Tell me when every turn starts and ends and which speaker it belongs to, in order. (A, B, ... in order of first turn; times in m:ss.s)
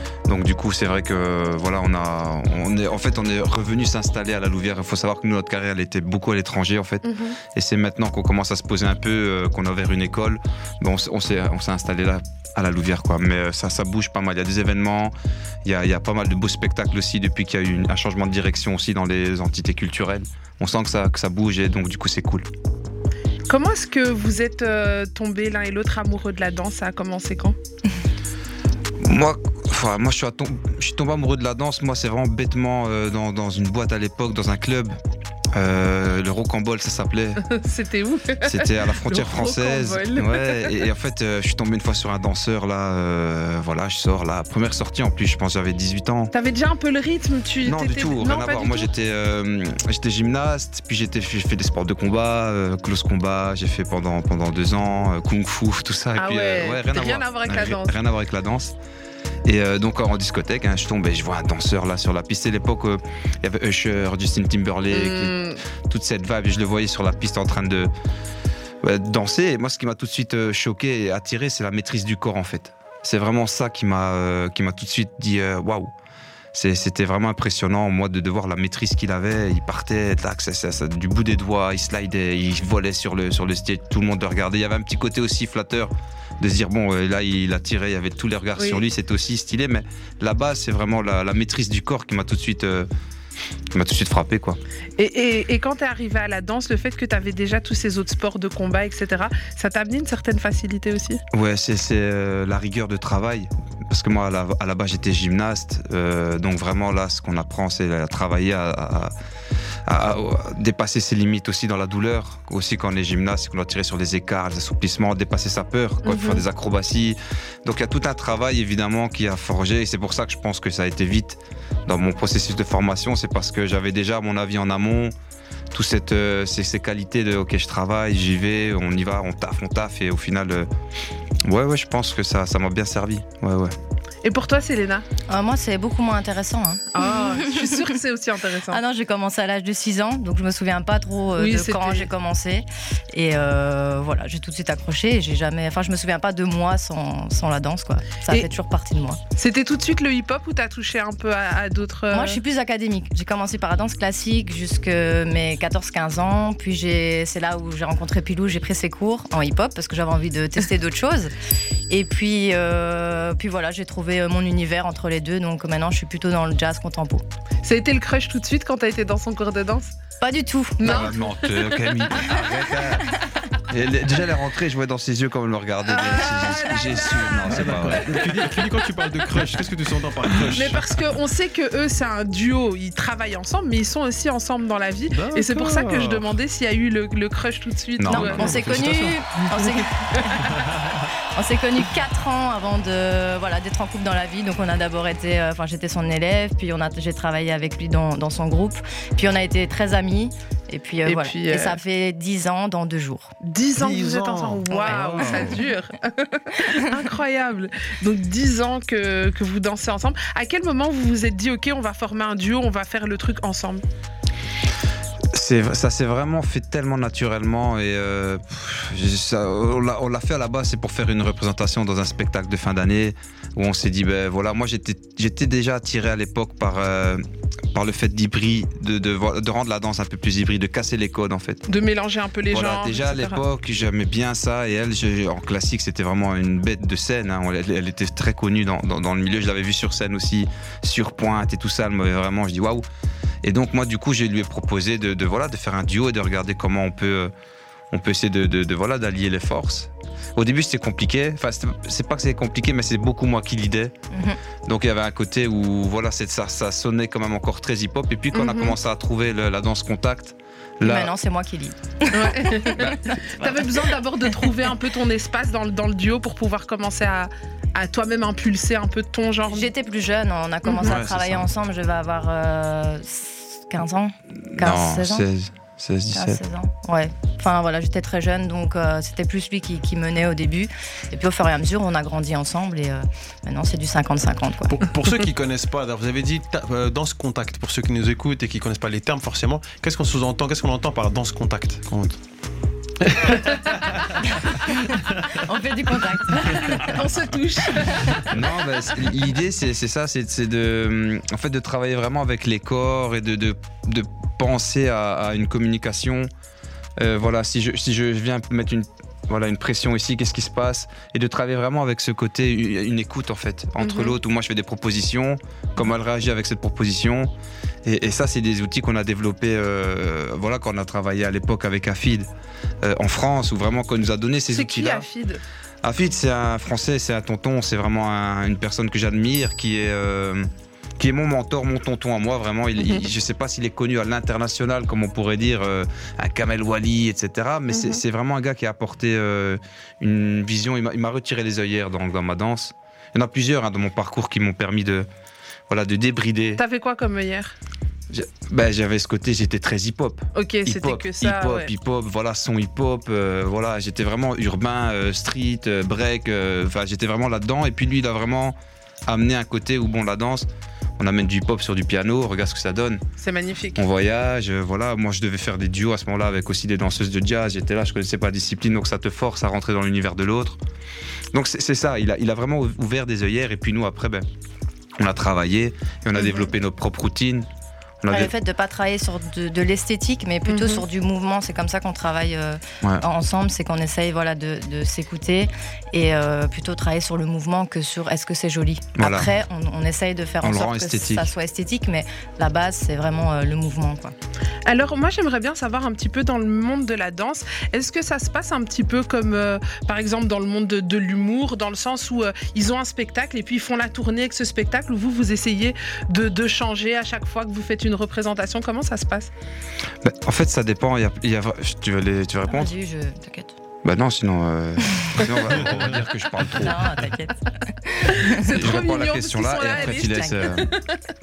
0:00.3-0:22.5 A
0:07.0-0:07.4 B
0:23.5-0:27.6 B
0:29.0-0:35.0 A
0:35.5-0:37.5 A
0:37.5-0:40.8 B
0:38.4-0:46.3 A
0:46.3-0:48.9 B
0:47.6-0:58.8 A
0:56.2-0:58.0 B
0:59.5-1:05.4 A
1:04.9-1:05.6 B
1:05.9-1:07.9 A
1:08.8-1:15.9 A
1:16.5-1:32.9 A
1:28.6-1:28.8 B
1:33.7-1:34.6 A
1:35.0-1:41.2 B
1:41.3-1:49.1 A
1:49.9-2:05.1 A
1:56.0-1:56.4 B
2:05.7-2:10.7 A
2:11.4-2:13.7 A
2:14.2-2:15.1 B
2:15.3-2:17.9 C
2:17.0-2:18.8 B
2:18.7-2:29.2 C
2:21.4-2:22.1 B
2:29.4-2:32.4 B
2:32.1-2:41.3 C
2:41.9-2:47.2 C
2:47.6-2:49.9 B
2:50.2-2:51.0 C
2:50.8-2:51.7 B
2:50.8-2:58.1 A
2:55.9-2:58.6 B
2:57.5-3:00.9 D
3:00.5-3:08.6 B
3:05.1-3:06.3 D
3:08.0-3:08.9 A
3:08.1-3:10.5 C
3:08.4-3:09.2 D
3:10.0-3:10.5 B
3:11.4-3:23.3 C
3:21.0-3:21.8 B
3:23.4-3:33.8 B
3:23.8-3:25.6 D
3:24.7-3:25.6 C
3:35.3-3:51.6 A
3:51.7-3:53.4 B
3:52.5-4:02.9 A
4:03.4-4:07.3 A
4:07.9-4:13.9 A
4:14.1-4:14.4 C
4:14.6-4:21.1 A
4:18.3-4:18.8 B
4:20.8-4:23.7 C
4:22.1-4:29.7 B
4:29.5-4:35.3 C
4:30.6-4:31.0 B
4:30.8-4:31.5 A
4:34.4-4:36.4 A
4:36.1-4:44.8 C
4:44.7-4:52.2 D
4:53.0-4:54.0 D
4:55.3-4:57.0 C
4:56.4-4:58.4 B
4:58.3-5:06.3 A
5:07.0-5:17.3 A
5:13.8-5:14.2 B
5:17.8-5:22.3 A
5:22.8-5:25.1 A
5:24.5-5:25.4 B
5:25.8-5:45.1 A
5:32.8-5:33.0 B
5:37.7-5:38.0 B
5:45.7-5:46.6 A
5:46.6-5:47.6 B
5:48.1-5:58.6 A
5:50.4-5:51.7 B
5:59.1-6:03.0 A
6:03.2-6:03.9 B
6:03.8-6:10.6 A
6:11.3-6:14.3 A
6:15.0-6:17.5 A
6:18.0-6:18.3 A
6:18.1-6:34.1 C
6:20.5-6:20.8 B
6:29.0-6:29.3 A
6:30.4-6:31.3 A
6:34.7-6:49.3 B
6:50.0-6:52.7 A
6:52.5-6:53.6 C
6:53.8-6:57.1 A
6:55.5-6:56.1 D
6:56.5-6:58.6 C
6:58.1-7:01.0 B
6:58.5-7:00.7 A
6:59.8-7:00.6 C